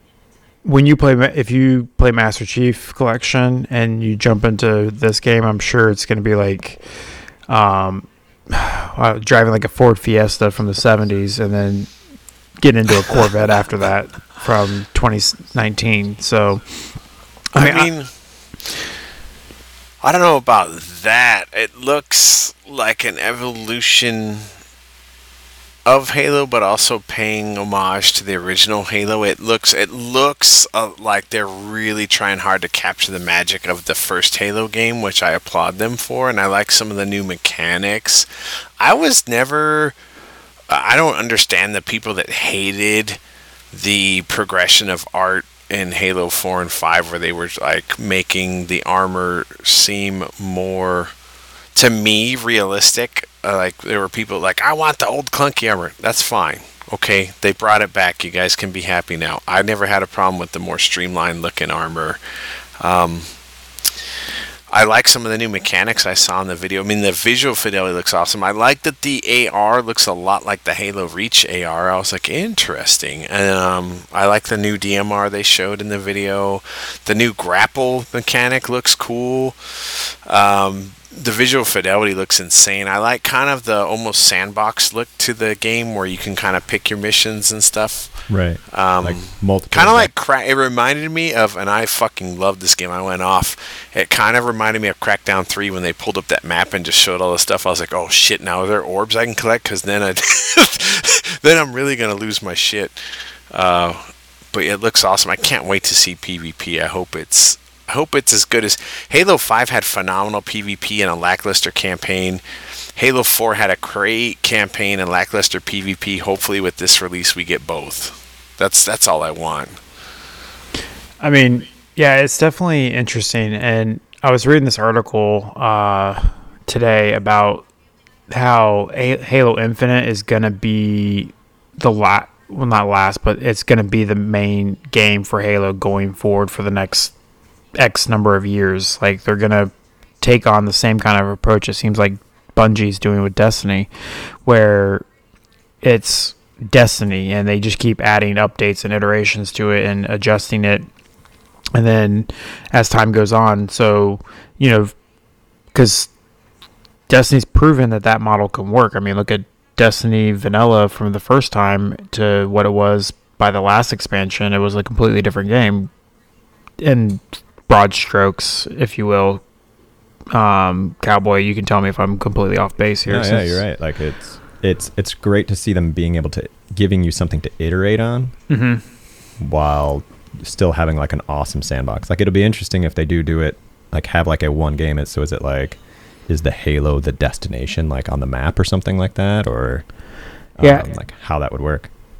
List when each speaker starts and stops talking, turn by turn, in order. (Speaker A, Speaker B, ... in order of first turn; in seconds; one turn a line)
Speaker A: 0.6-6.8
Speaker A: 7.5-11.9
Speaker A: 12.6-16.7
Speaker A: 17.5-17.9
Speaker B: 17.6-18.1
Speaker B: 20.0-24.5
Speaker B: 25.9-38.3
Speaker B: 38.8-40.0
Speaker B: 40.7-43.2
Speaker B: 43.7-51.1
Speaker B: 51.7-62.2
Speaker B: 62.8-63.3
Speaker B: 64.7-112.4
Speaker C: 88.3-90.1
Speaker B: 113.0-119.8
Speaker A: 121.2-127.7
Speaker A: 128.3-137.1
Speaker A: 137.8-143.9
Speaker A: 144.4-145.0
Speaker A: 145.8-150.8
Speaker A: 151.7-154.9
Speaker A: 155.7-156.1
Speaker A: 157.1-165.9
Speaker A: 166.8-169.4
Speaker A: 170.3-173.6
Speaker C: 173.1-178.3
Speaker A: 178.5-178.8
Speaker C: 179.4-189.8
Speaker C: 190.6-191.9
Speaker A: 190.6-190.8